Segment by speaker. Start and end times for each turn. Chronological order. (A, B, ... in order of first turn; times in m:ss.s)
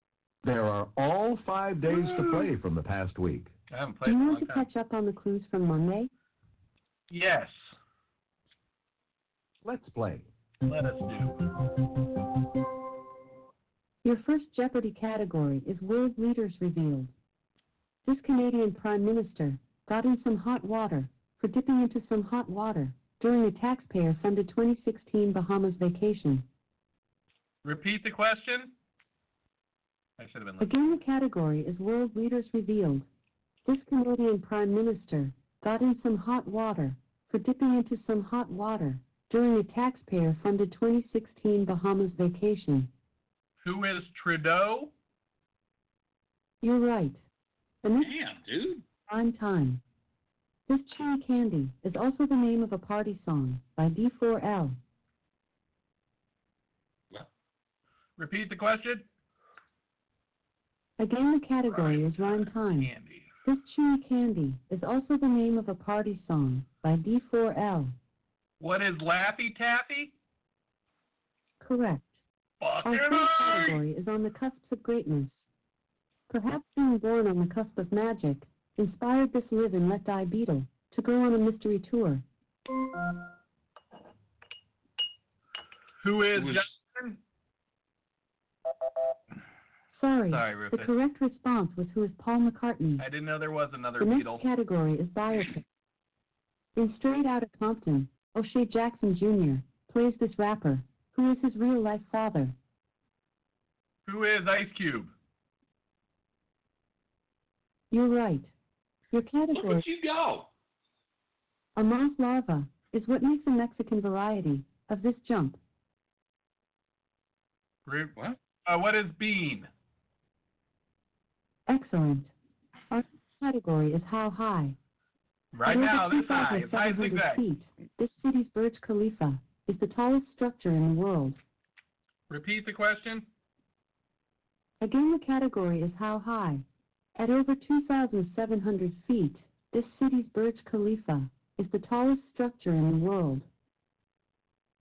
0:00.4-0:03.5 A
0:01.9-0:02.5 B
0:03.7-0:04.7 B
0:04.0-0:06.1 C
0:07.1-0:07.7 B
0:09.6-0:10.3 A
0:10.6-0:11.4 B
0:14.0-0:17.1 C
0:18.0-0:26.4 C
0:27.6-0:28.7 B
0:30.2-0:30.7 B
0:30.6-0:33.1 C
0:33.6-0:42.9 C
0:43.6-0:44.9 B
0:46.6-0:47.2 C
0:47.8-0:48.1 C
0:48.0-0:48.8 D
0:49.1-0:49.8 C
0:50.7-0:54.8 C
0:58.2-0:59.0 B
1:01.0-1:02.9 C
1:01.7-1:03.3 B
1:03.4-1:07.9 C
1:08.6-1:10.1 B
1:11.6-1:12.2 C
1:12.6-1:13.8 B
1:12.8-1:15.4 C
1:16.3-1:22.2 C
1:26.0-1:27.2 B
1:26.4-1:26.7 D
1:29.9-1:33.1 C
1:30.3-1:30.9 B
1:33.0-1:34.4 B
1:34.0-1:35.6 C
1:36.8-1:42.5 C
1:44.0-1:45.1 B
1:47.9-1:48.5 C
1:49.1-1:49.8 C
1:49.5-1:50.5 D
1:51.8-1:55.6 C
1:57.8-1:59.7 B
2:01.7-2:02.3 C
2:02.9-2:04.8 C
2:05.5-2:07.4 B
2:05.6-2:11.4 C
2:12.3-2:13.3 B
2:14.8-2:16.6 C
2:17.2-2:23.5 C